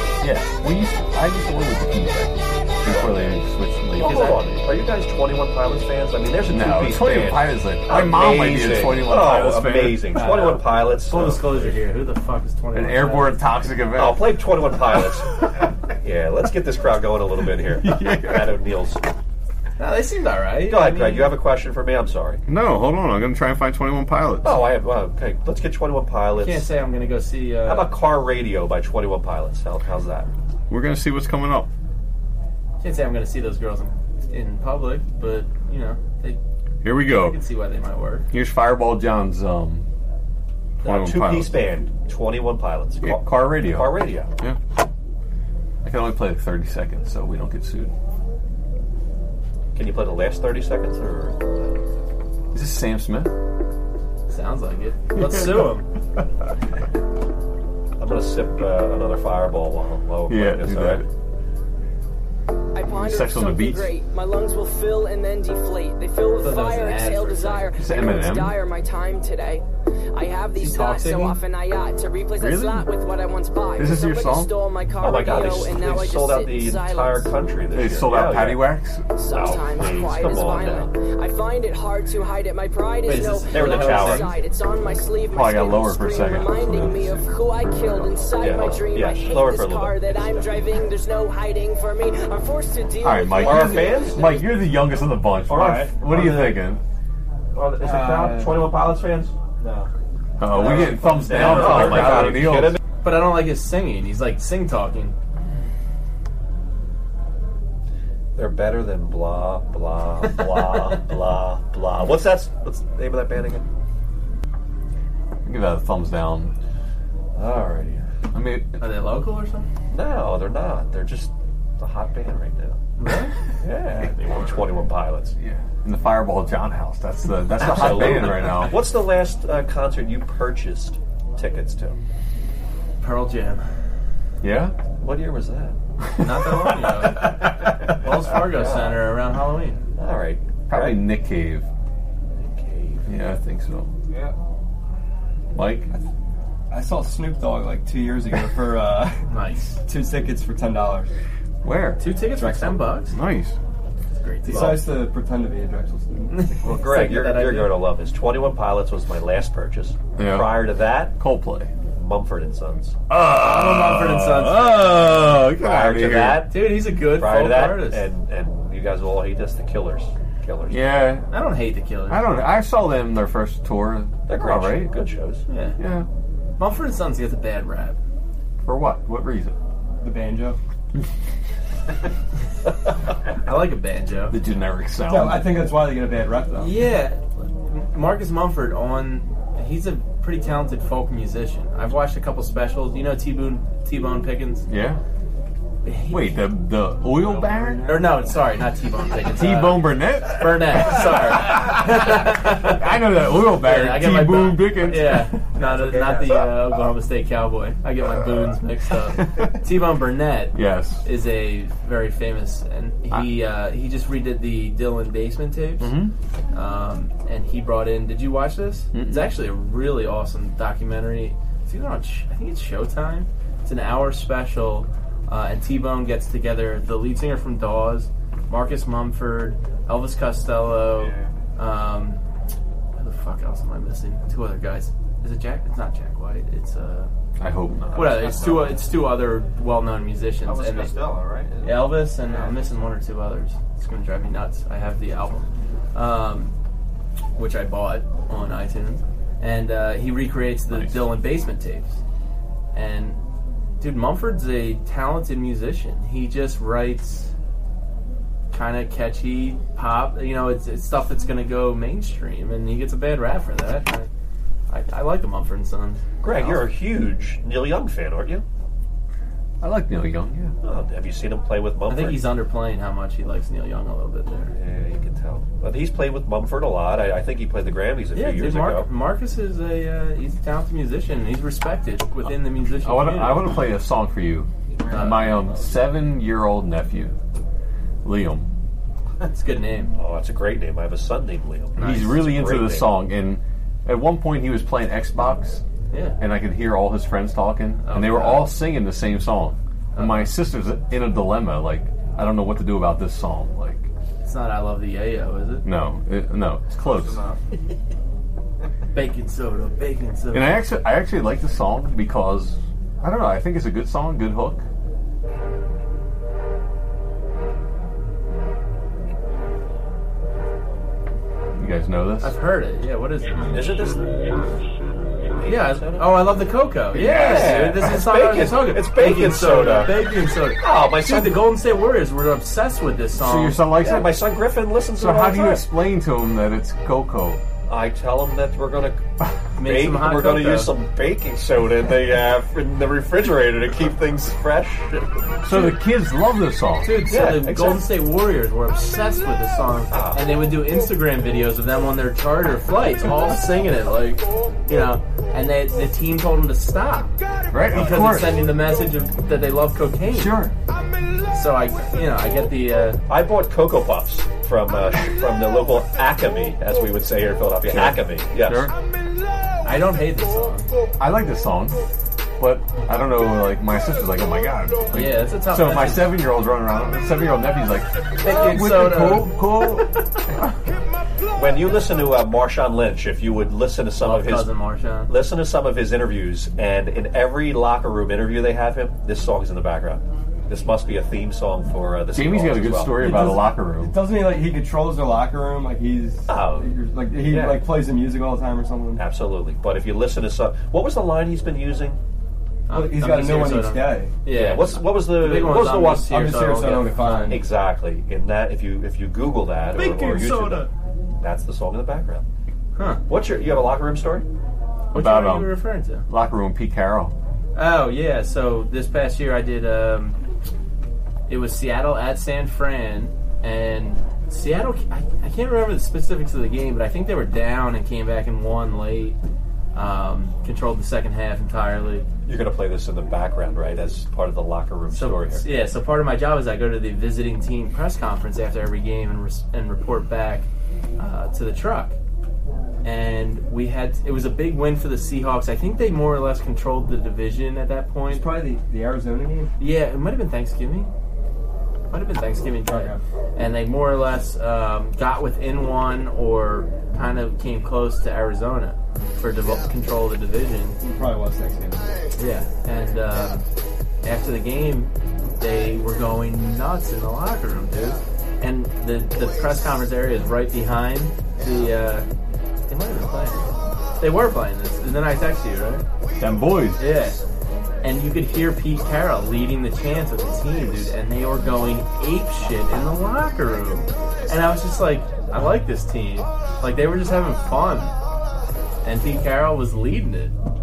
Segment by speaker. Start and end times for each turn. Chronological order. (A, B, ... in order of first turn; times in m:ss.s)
0:00.2-0:04.5 A
0:02.8-0:03.3 B
0:04.0-0:11.8 B
0:06.4-0:10.3 A
0:10.1-0:13.4 C
0:12.7-0:14.4 A
0:13.9-0:15.4 B
0:16.0-0:19.0 B
0:17.8-0:18.5 A
0:19.8-0:21.3 C
0:20.7-0:22.4 B
0:22.5-0:24.6 A
0:24.4-0:26.7 B
0:26.4-0:27.9 C
0:27.6-0:30.3 B
0:30.7-0:31.7 A
0:32.8-0:36.4 C
0:36.8-0:37.4 A
0:37.0-0:38.3 C
0:38.3-0:39.8 A
0:40.8-0:41.6 A
0:40.8-0:44.3 B
0:43.0-0:44.6 A
0:45.8-0:47.9 A
0:49.7-0:51.8 B
0:52.5-0:53.3 A
0:54.3-0:55.9 C
0:55.2-0:55.7 A
0:58.0-1:01.0 B
1:00.3-1:01.1 A
1:02.7-1:17.3 D
1:02.9-1:03.9 A
1:06.4-1:07.7 C
1:07.8-1:08.6 A
1:10.6-1:11.4 C
1:12.4-1:12.9 A
1:13.8-1:14.5 A
1:15.0-1:18.8 B
1:17.7-1:19.5 A
1:19.1-1:34.0 D
1:19.3-1:20.9 B
1:23.0-1:24.3 C
1:23.5-1:24.3 B
1:25.3-1:27.3 A
1:28.3-1:30.5 B
1:33.0-1:36.8 A
1:33.4-1:34.6 B
1:35.5-1:36.6 B
1:37.5-1:39.9 B
1:37.8-1:38.6 E
1:40.4-1:42.8 A
1:40.5-1:42.8 B
1:40.6-1:42.1 C
1:43.0-1:45.1 C
1:48.4-1:53.6 B
1:55.4-1:56.5 A
1:57.4-1:58.0 B
1:58.3-1:58.8 A
1:58.8-1:59.7 C
1:59.9-2:02.8 B
2:03.0-2:03.3 C
2:03.6-2:05.3 B
2:05.4-2:08.8 A
2:07.5-2:12.0 B
2:13.0-2:13.6 C
2:14.4-2:14.7 A
2:15.0-2:15.8 B
2:16.0-2:17.4 A
2:16.2-2:19.8 C
2:18.3-2:19.0 B
2:20.0-2:21.0 B
2:20.7-2:21.6 A
2:22.4-2:23.0 B
2:23.0-2:23.9 A
2:25.5-2:25.9 A
2:26.7-2:29.2 E
2:29.3-2:29.8 C
2:29.8-2:31.1 E
2:31.6-2:32.0 A
2:32.0-2:33.2 C
2:32.2-2:32.9 E
2:33.1-2:33.6 A
2:34.2-2:34.8 C
2:34.4-2:36.5 E
2:34.5-2:34.8 B
2:36.3-2:37.7 C
2:36.6-2:41.1 B
2:40.2-2:41.7 A
2:41.9-2:43.0 B
2:43.1-2:46.5 A
2:43.3-2:45.1 C
2:45.5-2:51.0 B
2:46.5-2:48.0 C
2:50.7-2:51.3 A
2:51.3-2:52.4 C
2:52.1-2:54.9 A
2:54.3-2:55.4 B
2:55.5-2:55.8 C
2:55.8-2:56.1 A
2:56.6-2:58.0 C
2:58.6-2:59.5 A
3:00.0-3:00.6 E
3:03.4-3:04.4 C
3:04.3-3:05.6 A
3:05.1-3:06.8 E
3:06.6-3:14.6 C
3:14.7-3:15.0 A
3:15.8-3:16.5 C
3:16.1-3:18.1 A
3:17.4-3:18.1 E
3:17.8-3:22.8 C
3:19.3-3:25.6 A
3:23.5-3:36.0 C
3:29.0-3:29.6 A
3:30.5-3:31.0 A
3:35.8-3:36.1 A
3:36.5-3:52.2 C
3:38.9-3:39.3 A
3:53.0-3:57.1 C
3:57.4-3:58.4 A
3:57.9-4:00.9 C
4:00.5-4:02.5 F
4:01.6-4:06.5 C
4:07.3-4:12.0 C
4:10.7-4:11.0 A
4:12.7-4:13.2 C
4:13.8-4:17.3 C
4:18.5-4:24.1 C
4:24.7-4:26.6 C
4:26.2-4:28.4 B
4:29.6-4:30.5 A
4:30.6-4:32.2 B
4:31.9-4:34.5 C
4:34.5-4:38.9 B
4:38.1-4:43.5 C
4:42.8-4:47.1 A
4:44.9-4:45.3 C
4:48.0-4:48.5 A
4:49.2-4:49.9 C
4:50.0-4:53.0 B
4:51.8-4:55.6 A
4:51.8-4:52.0 C
4:55.9-4:56.2 C
4:56.2-5:03.9 A
4:57.8-4:58.5 C
4:59.9-5:00.3 C
5:04.2-5:05.6 C
5:05.6-5:07.2 A
5:06.9-5:07.3 F
5:08.9-5:10.6 C
5:10.3-5:14.6 A
5:21.6-5:22.3 A
5:22.2-5:23.5 C
5:23.5-5:24.1 B
5:25.4-5:26.2 B
5:25.4-5:33.6 C
5:26.9-5:27.9 A
5:26.9-5:29.9 B
5:30.6-5:31.5 B
5:33.2-5:34.2 A
5:33.8-5:35.7 B
5:34.9-5:37.4 A
5:37.7-5:39.0 B
5:39.6-5:40.7 C
5:39.6-5:45.0 B
5:45.4-5:47.0 A
5:46.8-5:57.1 C
5:47.1-5:47.9 B
5:49.9-5:50.2 B
5:57.5-5:58.4 A
5:57.7-6:00.4 C
6:00.1-6:00.5 A
6:01.3-6:03.0 C
6:03.1-6:08.7 B
6:07.7-6:08.7 A
6:09.6-6:10.7 C
6:11.0-6:11.8 A
6:12.4-6:19.9 A
6:14.9-6:16.1 C
6:18.2-6:19.4 C
6:21.3-6:24.5 B
6:24.0-6:25.1 C
6:25.1-6:33.0 B
6:32.1-6:34.0 A
6:33.0-6:39.0 E
6:36.3-6:37.7 B
6:39.0-6:42.0 B
6:42.7-6:47.3 C
6:42.7-6:44.1 E
6:44.3-6:46.1 B
6:46.1-6:47.4 E
6:47.3-6:52.2 B
6:49.7-6:50.7 C
6:52.8-6:53.0 C
6:53.1-6:54.2 B
6:54.9-6:56.0 C
6:54.9-6:57.1 A
6:57.5-7:00.2 C
7:01.3-7:09.2 C
7:09.7-7:12.1 C
7:12.2-7:15.4 B
7:14.9-7:20.5 C
7:21.0-7:21.9 C
7:22.8-7:28.3 C
7:28.1-7:29.5 E
7:29.6-7:30.9 C
7:31.9-7:40.8 C
7:32.6-7:33.0 E
7:40.8-7:41.9 E
7:42.2-7:43.4 C
7:44.0-7:52.1 C
7:52.7-7:53.5 C
7:54.0-7:55.8 C
7:56.2-7:56.8 A
7:56.8-7:57.2 C
7:57.8-8:07.9 C
8:08.8-8:10.3 C